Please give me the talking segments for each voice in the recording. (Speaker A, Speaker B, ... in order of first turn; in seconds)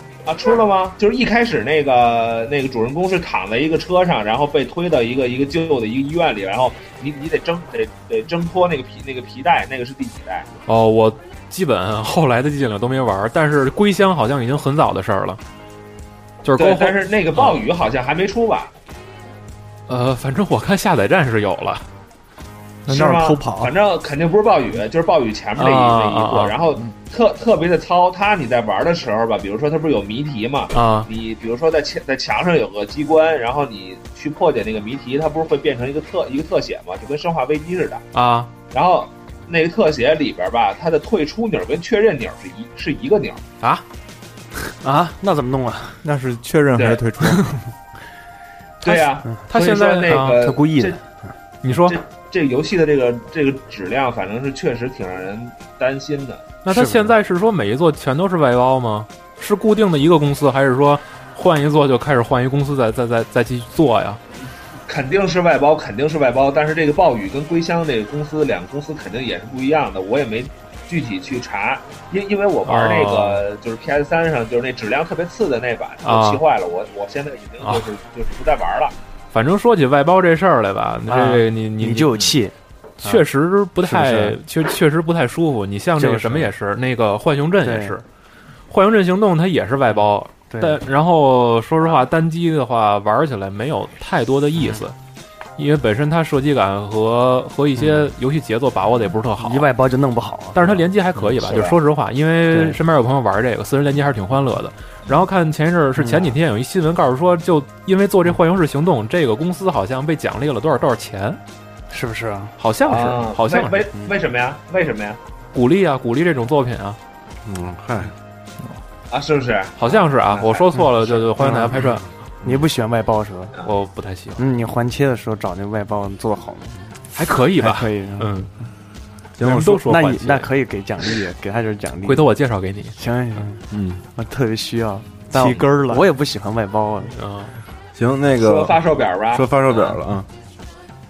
Speaker A: 0.2-10.5, 16.6-18.7, 22.9-38.0, 38.7-43.4, 46.8-47.0, 48.8-51.0, 51.8-56.5, 64.9-78.9, 101.4-101.8, 112.8-115.2, 119.1-121.5, 138.4-139.7
Speaker B: 10.7-15.4, 16.4-17.6, 19.9-21.9, 25.6-26.6, 30.7-31.1, 38.1-38.5, 48.8-50.5, 51.6-52.0, 56.6-64.2, 72.6-73.4, 76.0-76.4, 77.6-77.9, 79.3-82.2, 83.0-88.0, 88.7-94.9, 95.6-99.7, 100.5-111.4, 112.6-113.9, 115.5-117.0, 119.8-122.1, 123.6-124.4, 127.1-128.5, 129.4-130.5, 132.0-132.9, 137.1-137.5
Speaker C: 22.9-23.7, 46.0-47.6, 135.3-136.1
Speaker D: 44.8-46.0, 50.1-51.0, 56.7-57.1, 81.1-83.2, 83.8-84.4, 86.0-86.5, 87.6-88.0, 90.5-90.8, 94.6-94.8, 97.8-98.1, 99.4-100.8, 102.5-102.8, 106.0-106.3, 111.9-112.5, 122.4-123.5, 124.4-126.8, 127.6-128.3, 129.4-132.3, 132.9-133.6, 134.1-137.1
Speaker E: 117.4-118.1, 129.4-129.7, 133.7-134.0, 137.9-140.3